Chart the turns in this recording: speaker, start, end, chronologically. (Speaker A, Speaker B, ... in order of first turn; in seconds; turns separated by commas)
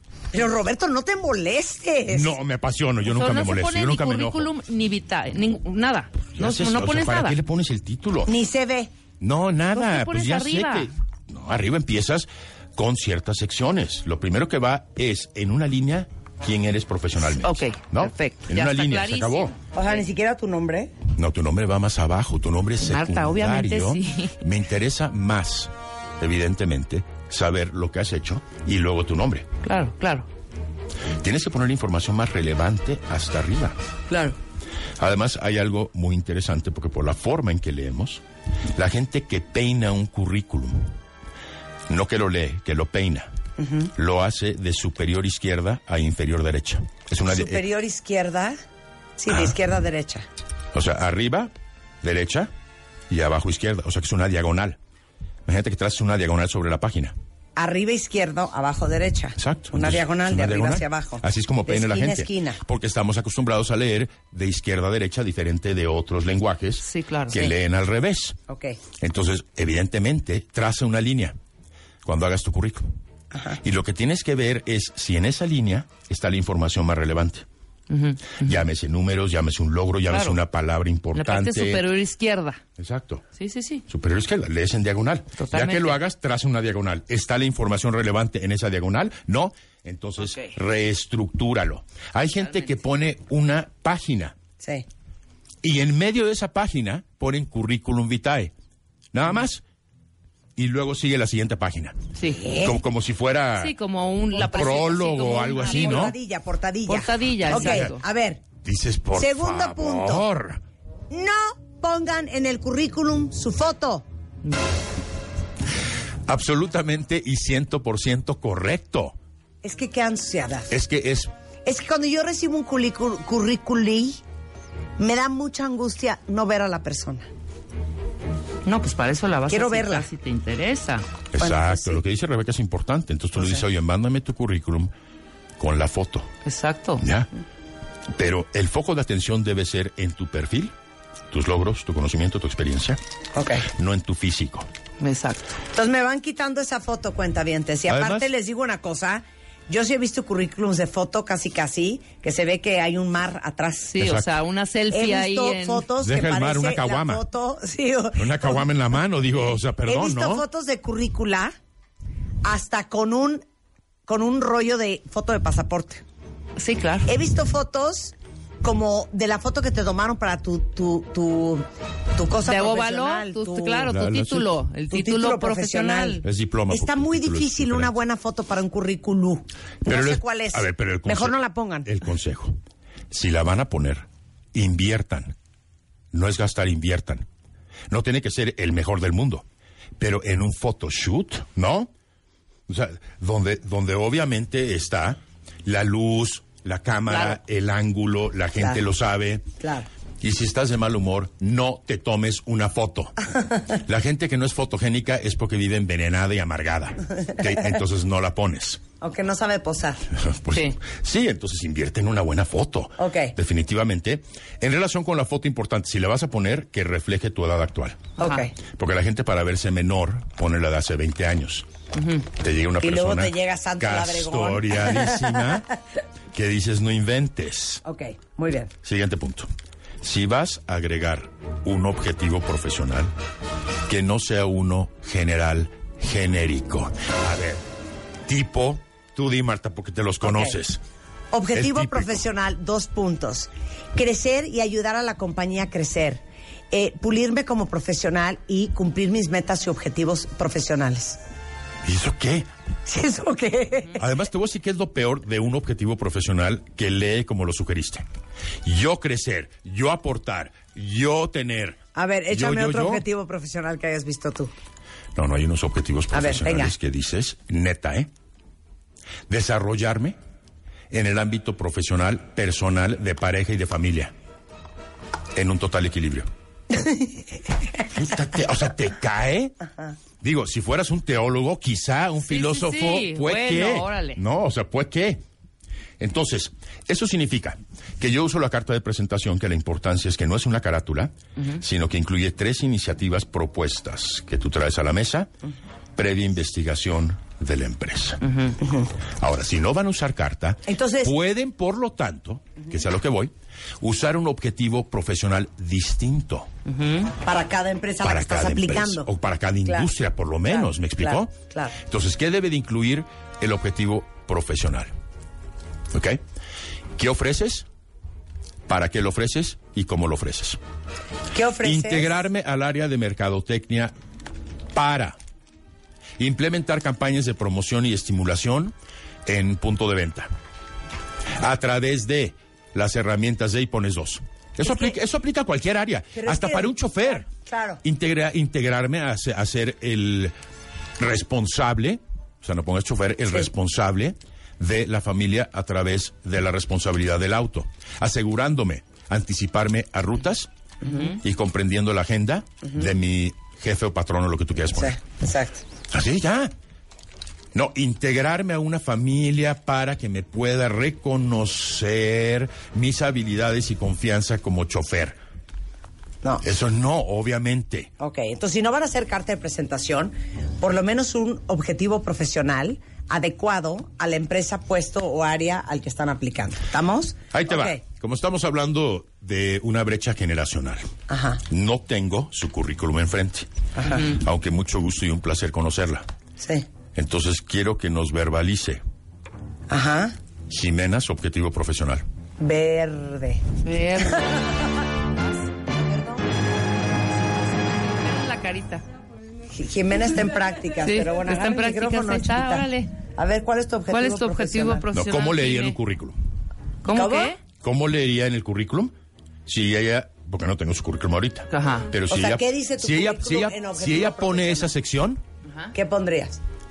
Speaker A: 0.3-2.3, Speaker B: 2.1-4.5, Speaker C: 3.0-7.4, Speaker B: 6.3-8.3, Speaker A: 8.3-8.9, Speaker B: 9.2-19.5, Speaker C: 9.7-10.9, Speaker C: 17.4-19.5, Speaker A: 19.7-20.9, Speaker B: 21.1-29.5, Speaker C: 22.8-24.3, Speaker C: 29.6-30.3, Speaker B: 31.2-33.7, Speaker C: 34.1-34.4, Speaker B: 35.0-38.2, Speaker B: 38.7-40.9, Speaker B: 41.9-43.3, Speaker A: 43.6-43.9, Speaker B: 43.9-47.7, Speaker A: 47.3-48.6, Speaker A: 49.2-50.2, Speaker B: 49.3-49.6, Speaker B: 50.7-52.5, Speaker B: 53.1-54.8, Speaker B: 55.5-57.1, Speaker A: 57.5-62.6, Speaker B: 59.4-68.4, Speaker C: 66.8-67.4, Speaker A: 68.5-68.8, Speaker B: 69.0-71.3, Speaker B: 72.0-72.8, Speaker A: 73.3-73.6, Speaker B: 73.6-77.4, Speaker C: 77.9-78.6, Speaker B: 78.3-81.9, Speaker C: 80.1-80.4, Speaker C: 81.1-82.6, Speaker B: 82.8-83.2, Speaker C: 83.4-83.8, Speaker B: 83.9-94.3, Speaker C: 85.4-86.0, Speaker C: 90.2-90.5, Speaker C: 92.4-92.8, Speaker A: 94.6-94.8, Speaker B: 95.6-98.5, Speaker B: 99.1-99.6, Speaker B: 100.6-102.0, Speaker C: 102.2-102.5, Speaker A: 102.3-102.8, Speaker B: 102.5-103.7, Speaker C: 103.6-106.1, Speaker B: 104.3-106.2, Speaker A: 105.5-108.4, Speaker C: 106.9-108.0, Speaker B: 107.4-107.9, Speaker B: 108.6-110.6, Speaker A: 109.1-110.2, Speaker A: 111.1-114.0, Speaker B: 116.3-119.1, Speaker A: 119.6-120.7, Speaker B: 120.7-121.3, Speaker A: 121.6-124.2, Speaker A: 125.0-127.3, Speaker C: 128.6-131.0, Speaker A: 129.5-130.1, Speaker B: 131.3-134.9, Speaker A: 131.4-132.0, Speaker B: 135.6-136.3, Speaker C: 136.4-137.0, Speaker B: 137.0-137.3, Speaker B: 138.1-140.7, Speaker B: 141.3-143.0, Speaker A: 143.3-143.7, Speaker B: 143.7-144.7, Speaker C: 145.0-145.5, Speaker A: 145.7-154.0, Speaker B: 147.9-148.3, Speaker C: 153.9-155.9, Speaker B: 154.0-154.3, Speaker A: 154.9-158.6, Speaker B: 155.9-157.2, Speaker B: 158.2-160.4, Speaker A: 159.8-161.5, Speaker A: 162.4-163.4, Speaker A: 164.1-166.0, Speaker C: 166.6-167.1, Speaker A: 167.1-173.9, Speaker C: 172.4-176.2, Speaker B: 173.8-174.5, Speaker A: 174.9-181.9, Speaker B: 176.2-177.9, Speaker B: 179.8-182.6, Speaker B: 183.1-185.3, Speaker B: 186.1-187.2, Speaker B: 187.9-189.4, Speaker B: 190.0-191.9, Speaker B: 192.7-199.5, Speaker C: 197.1-197.4, Speaker A: 199.6-199.9, Speaker B: 200.2-203.1, Speaker B: 203.8-208.8, Speaker A: 209.0-210.0, Speaker B: 210.1-221.7, Speaker A: 213.0-213.3, Speaker A: 218.2-218.5, Speaker C: 218.2-218.4, Speaker C: 221.9-222.2, Speaker B: 222.3-225.6, Speaker A: 222.8-225.6, Speaker B: 226.3-227.8, Speaker A: 227.8-228.7, Speaker B: 228.8-229.5, Speaker B: 230.0-233.1, Speaker B: 233.9-237.6, Speaker B: 238.3-240.8, Speaker A: 240.2-240.5, Speaker A: 241.3-251.2, Speaker B: 241.5-242.2, Speaker B: 251.8-252.5, Speaker A: 252.8-254.0, Speaker B: 254.0-258.0, Speaker B: 258.6-263.0, Speaker A: 261.9-264.5, Speaker B: 265.1-268.1, Speaker A: 266.1-266.7, Speaker B: 269.3-270.2, Speaker B: 270.9-274.1, Speaker B: 275.3-276.3, Speaker A: 276.7-277.2, Speaker B: 277.9-279.5, Speaker B: 280.2-285.2, Speaker C: 282.2-284.2, Speaker B: 286.0-295.3, Speaker B: 295.9-298.2, Speaker C: 298.3-298.5, Speaker A: 298.6-298.9, Speaker B: 299.2-306.5, Speaker A: 300.7-301.1, Speaker C: 306.7-307.1, Speaker A: 307.2-309.1, Speaker B: 308.0-314.9, Speaker A: 310.5-311.8, Speaker B: 315.9-316.2, Speaker B: 317.0-317.6, Speaker B: 318.7-320.6, Speaker A: 321.3-322.2, Speaker B: 321.6-323.9, Speaker B: 324.7-325.2, Speaker B: 326.2-328.7, Speaker B: 329.2-330.3, Speaker B: 331.4-337.3, Speaker A: 336.1-337.8, Speaker B: 337.8-340.3, Speaker B: 341.0-350.5, Speaker A: 350.8-351.1, Speaker B: 351.1-355.0, Speaker A: 354.7-355.6, Speaker B: 355.9-356.5, Speaker B: 357.5-365.2, Speaker B: 366.4-367.9, Speaker A: 368.0-377.8, Speaker B: 377.3-380.9, Speaker A: 381.1-381.4, Speaker B: 381.5-383.5, Speaker A: 383.8-384.1, Speaker B: 384.0-386.0, Speaker A: 386.4-386.7, Speaker B: 386.9-388.8, Speaker A: 389.7-390.1, Speaker B: 390.5-392.0, Speaker A: 392.4-393.5, Speaker C: 393.6-394.6, Speaker A: 394.0-394.4, Speaker A: 395.8-396.2, Speaker C: 397.3-398.8, Speaker A: 399.5-404.9, Speaker C: 400.8-402.9, Speaker C: 403.9-405.8, Speaker B: 404.9-406.1, Speaker C: 406.8-407.4, Speaker A: 406.9-407.3, Speaker B: 407.5-408.9, Speaker B: 409.4-415.2, Speaker C: 411.5-411.9, Speaker A: 412.1-414.7, Speaker A: 415.7-416.4